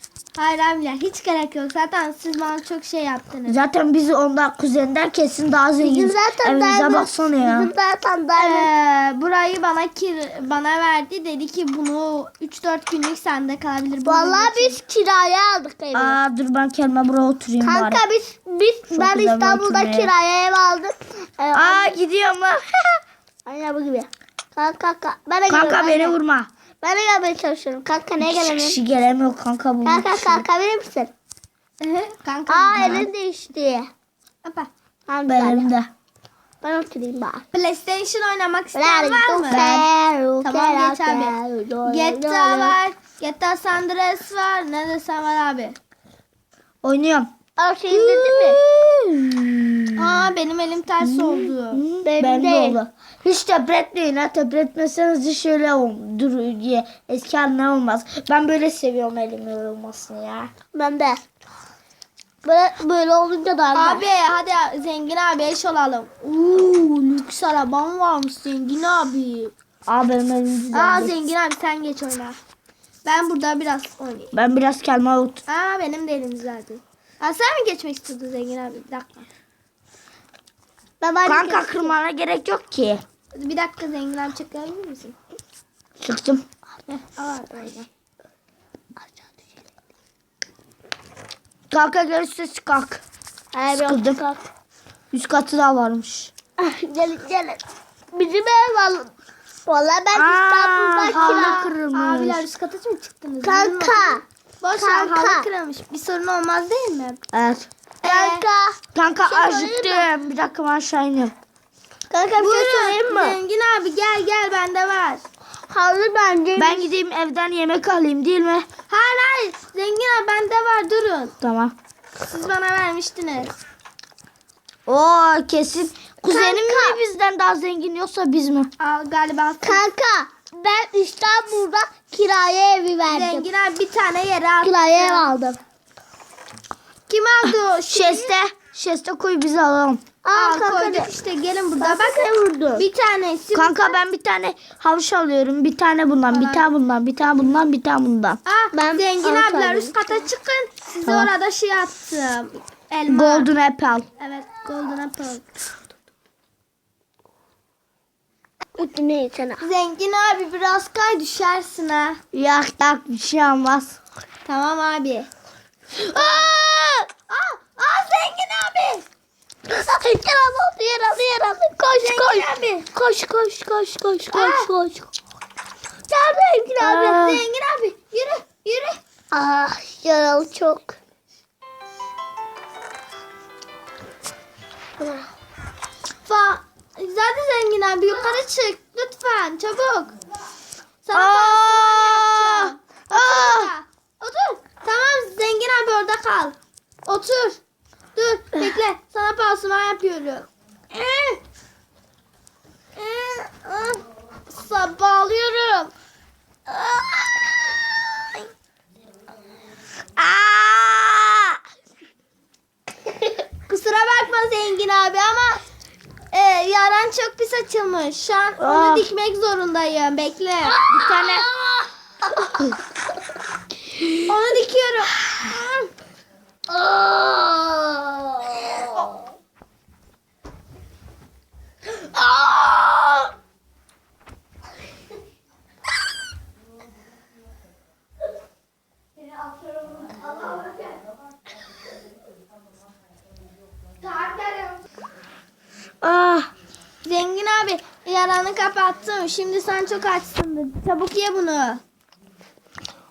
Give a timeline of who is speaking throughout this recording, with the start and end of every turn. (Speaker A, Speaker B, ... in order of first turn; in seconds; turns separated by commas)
Speaker A: 0.3-3.6, Speaker B: 3.5-7.7, Speaker C: 5.8-8.7, Speaker A: 8.3-14.8, Speaker C: 14.0-16.2, Speaker B: 15.9-18.0, Speaker C: 17.6-21.9, Speaker B: 18.9-20.1, Speaker B: 21.5-23.0, Speaker C: 23.4-26.1, Speaker B: 25.5-26.5, Speaker C: 26.8-28.8, Speaker B: 28.2-30.4, Speaker C: 29.8-31.1, Speaker A: 31.8-33.0, Speaker C: 32.5-33.9, Speaker B: 32.7-33.1, Speaker A: 34.4-34.7, Speaker C: 35.1-35.7, Speaker B: 35.3-35.9, Speaker C: 36.6-37.4, Speaker A: 37.5-39.8, Speaker C: 38.7-42.8, Speaker B: 39.5-39.9, Speaker A: 40.4-45.8, Speaker B: 46.8-47.3, Speaker C: 47.6-48.6, Speaker B: 47.9-50.2, Speaker A: 50.0-51.8, Speaker B: 51.0-60.5, Speaker C: 52.0-52.8, Speaker C: 60.7-61.2, Speaker C: 62.4-64.0, Speaker A: 63.7-69.5, Speaker B: 69.9-71.1, Speaker A: 70.7-72.4, Speaker A: 73.0-74.3, Speaker B: 74.3-75.4, Speaker A: 75.5-79.3, Speaker C: 81.0-81.9, Speaker B: 81.2-83.0, Speaker A: 83.3-85.2, Speaker B: 86.0-86.4, Speaker A: 86.9-87.9, Speaker B: 91.7-93.0, Speaker C: 93.5-94.4, Speaker B: 93.7-94.2, Speaker B: 95.1-96.3, Speaker C: 96.6-99.1, Speaker C: 99.7-101.6, Speaker B: 100.1-102.4, Speaker A: 101.1-107.2, Speaker C: 103.4-105.5, Speaker B: 107.3-107.7, Speaker A: 108.0-108.5, Speaker C: 108.0-110.0, Speaker B: 108.9-111.3, Speaker C: 112.1-113.4, Speaker A: 112.4-115.2, Speaker C: 115.7-116.9, Speaker B: 116.5-118.7, Speaker A: 118.9-121.3, Speaker B: 121.4-121.7, Speaker A: 122.2-123.5, Speaker B: 124.9-128.7, Speaker C: 126.3-127.0, Speaker A: 128.8-129.8, Speaker C: 129.6-133.4, Speaker A: 133.1-135.3, Speaker C: 134.6-135.6, Speaker A: 137.1-138.3, Speaker B: 137.9-140.0, Speaker C: 140.2-141.1, Speaker A: 140.3-144.0, Speaker C: 141.8-142.8, Speaker B: 143.5-148.4, Speaker A: 146.3-146.7, Speaker A: 148.4-153.5, Speaker C: 148.7-150.2, Speaker B: 151.0-151.3, Speaker B: 153.1-154.1, Speaker A: 154.2-155.5, Speaker C: 158.8-159.6, Speaker A: 159.6-162.2, Speaker B: 162.3-164.0, Speaker A: 164.4-165.3, Speaker B: 166.2-166.8, Speaker C: 166.2-166.6, Speaker A: 167.3-169.1, Speaker C: 169.7-175.1, Speaker A: 171.9-172.9, Speaker A: 174.3-174.7, Speaker C: 176.1-177.2, Speaker B: 176.8-177.4, Speaker A: 176.9-179.0, Speaker C: 179.3-180.9, Speaker C: 185.0-185.3, Speaker A: 186.2-190.1, Speaker A: 191.0-197.6, Speaker B: 191.1-193.7, Speaker A: 198.1-201.4, Speaker A: 202.9-205.9, Speaker A: 206.8-207.7, Speaker B: 210.2-211.6, Speaker A: 213.7-215.6, Speaker A: 216.3-220.9, Speaker B: 218.6-219.1, Speaker B: 220.8-221.5, Speaker C: 220.9-221.9, Speaker A: 224.2-225.9, Speaker C: 226.7-229.1, Speaker B: 232.4-232.7, Speaker A: 239.9-240.7, Speaker A: 244.0-244.8, Speaker B: 246.0-246.5, Speaker A: 247.0-251.8